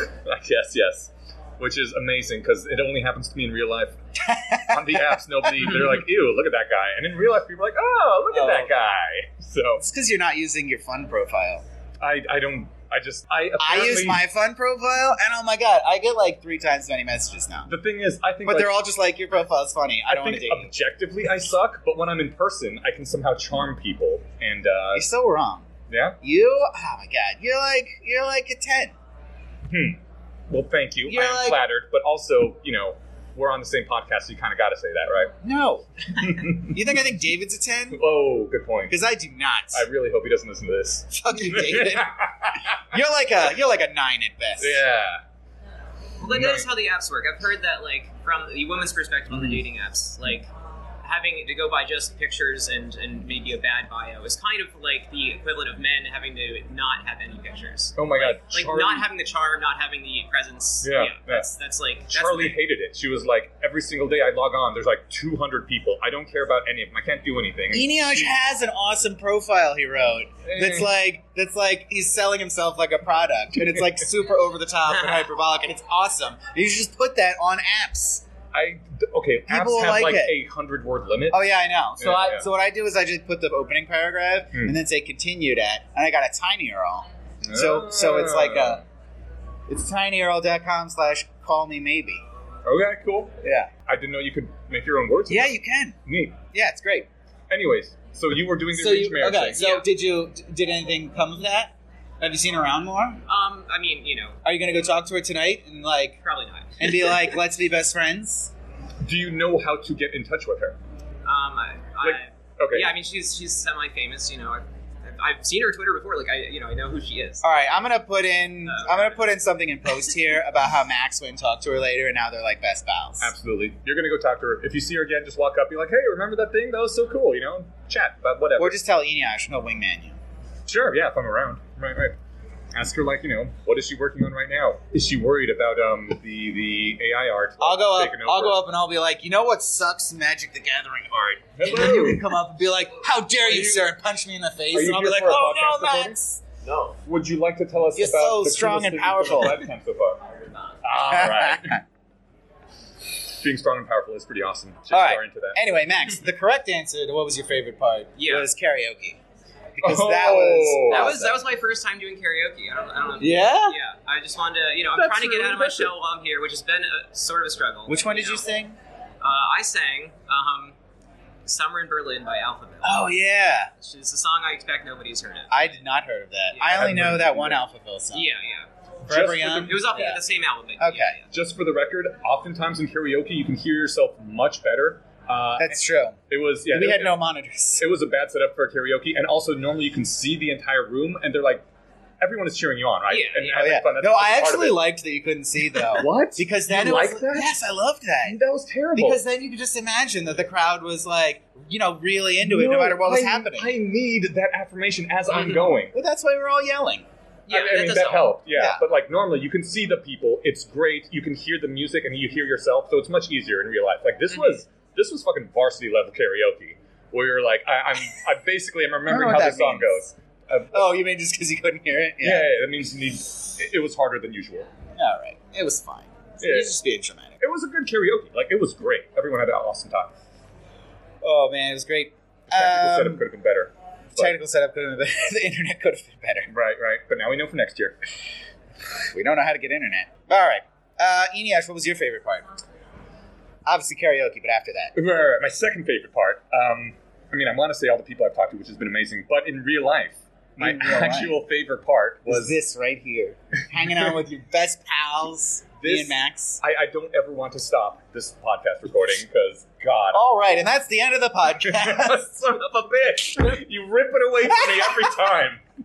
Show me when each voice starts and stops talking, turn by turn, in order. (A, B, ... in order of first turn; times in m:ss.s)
0:00.2-0:04.0 A
0:04.2-0:05.2 B
0:04.6-0:09.8 A
0:09.8-0:11.6 B
0:12.0-0:14.2 A
0:13.6-0:17.7 B
0:17.7-0:18.8 A
0:18.4-0:20.7 B
0:20.1-0:25.1 A
0:24.9-0:25.7 B
0:25.9-0:26.2 A
0:26.2-0:28.9 B
0:29.7-0:35.3 A
0:31.1-0:31.6 B
0:35.4-0:35.9 B
0:36.2-0:36.8 A
0:36.5-0:38.0 B
0:37.9-0:39.0 A
0:38.9-0:39.9 B
0:39.7-0:42.9 A
0:41.1-0:42.1 B
0:42.8-0:44.8 B
0:44.6-0:45.2 A
0:46.2-0:50.5 C
0:46.3-0:46.7 A
0:51.0-1:02.6 C
0:58.0-0:59.1 A
1:00.8-1:01.5 A
1:02.1-1:08.3 A
1:07.7-1:18.2 B
1:10.4-1:10.9 A
1:14.9-1:15.2 C
1:18.5-1:21.4 A
1:19.5-1:20.4 B
1:21.3-1:28.8 B
1:22.0-1:22.5 A
1:27.4-1:28.8 A
1:29.7-1:32.2 B
1:32.6-1:36.5 A
1:33.4-1:33.7 B
1:35.3-1:36.0 B
1:36.5-1:37.1 B
1:37.5-1:39.6 A
1:38.7-1:43.2 B
1:39.5-1:39.9 C
1:43.3-1:44.4 C
1:44.4-1:46.2 B
1:46.2-1:47.2 C
1:46.8-1:48.5 B
1:49.0-1:50.8 A
1:51.2-1:57.6 C
1:52.0-1:53.0 A
1:57.4-2:03.3 B
1:58.7-1:59.3 C
2:03.2-2:08.8 A
2:08.6-2:10.2 B
2:10.7-2:12.2 A
2:12.7-2:18.6 A
2:17.6-2:26.4 B
2:21.6-2:22.3 A
2:23.4-2:23.9 A
2:24.7-2:26.2 A
2:26.6-2:27.0 C
2:27.0-2:30.2 A
2:28.0-2:29.6 B
2:30.8-2:31.8 A
2:31.1-2:31.8 B
2:33.2-2:35.6 A
2:34.9-2:39.2 B
2:38.2-2:38.5 C
2:39.8-2:41.4 B
2:39.8-2:41.1 A
2:40.9-2:48.5 C
2:43.2-2:43.8 B
2:45.0-2:45.9 A
2:47.9-2:48.8 B
2:49.2-2:50.8 C
2:51.4-2:53.2 C
2:52.8-2:53.7 B
2:53.8-2:55.7 C
2:55.5-2:58.3 B
2:56.5-2:56.9 C
2:56.6-2:57.6 A
2:58.1-2:58.7 C
2:59.1-2:59.8 A
2:59.1-3:00.2 B
2:59.4-3:01.3 C
3:00.8-3:01.2 B
3:01.3-3:07.2 A
3:05.6-3:06.2 B
3:06.7-3:07.9 B
3:07.8-3:11.6 A
3:12.2-3:14.9 A
3:13.1-3:13.7 C
3:13.5-3:18.4 B
3:15.9-3:17.6 A
3:18.2-3:19.2 A
3:18.9-3:23.7 B
3:22.4-3:25.9 A
3:25.3-3:25.7 C
3:25.9-3:27.1 B
3:27.5-3:28.4 C
3:27.5-3:40.9 A
3:28.6-3:28.8 B
3:34.3-3:34.6 C
3:39.1-3:40.0 B
3:40.7-3:42.5 B
3:42.2-3:44.7 A
3:45.0-3:47.4 B
3:46.4-3:46.8 A
3:47.4-3:50.1 A
3:51.2-3:53.2 B
3:52.5-3:54.4 A
3:54.2-3:56.5 B
3:56.5-3:58.0 A
3:59.0-4:02.5 B
4:03.6-4:04.9 B
4:04.9-4:12.6 A
4:10.6-4:11.4 B
4:12.3-4:16.6 B
4:15.8-4:20.2 A
4:20.1-4:22.3 B
4:21.7-4:25.6 A
4:24.6-4:25.0 B